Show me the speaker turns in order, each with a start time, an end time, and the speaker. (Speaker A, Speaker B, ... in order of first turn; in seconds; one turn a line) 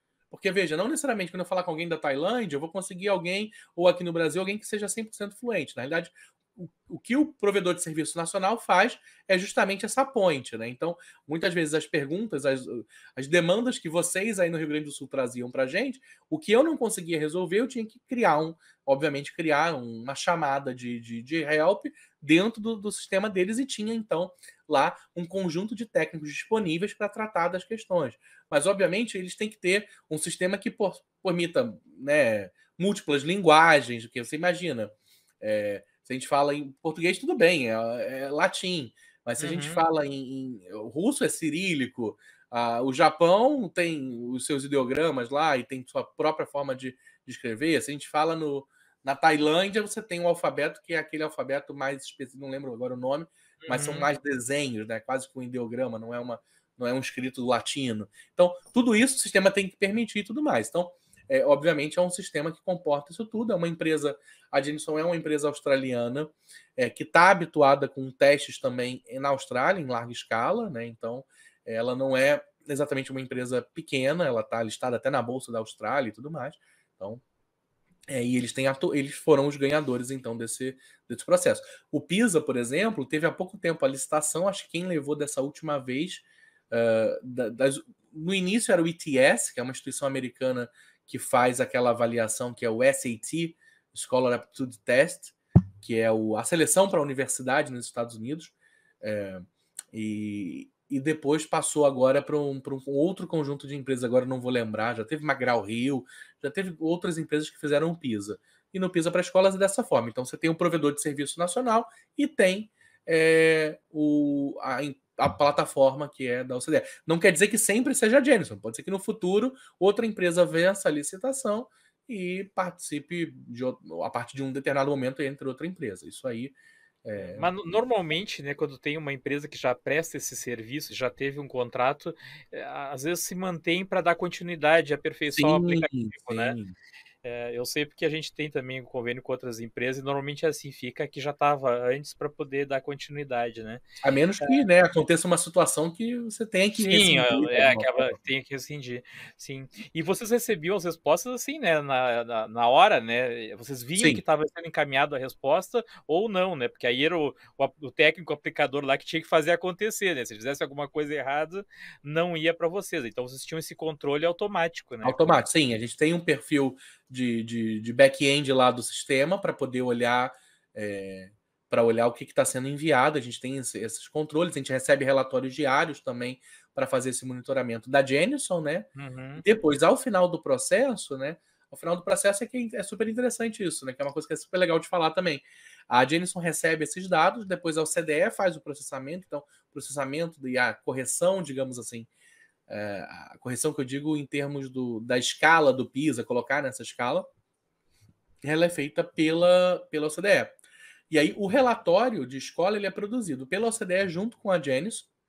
Speaker A: 0.3-77.2
Speaker B: 39.4-39.8
Speaker B: 53.6-54.1
Speaker A: 78.1-127.5
Speaker B: 127.2-136.6
Speaker A: 135.3-136.7
Speaker B: 137.2-143.8
Speaker A: 144.0-148.2
Speaker B: 146.8-165.4
Speaker A: 154.0-154.2
Speaker A: 165.0-192.1
Speaker B: 178.9-179.4
Speaker A: 192.7-197.3
Speaker A: 198.4-200.6
Speaker A: 201.1-205.1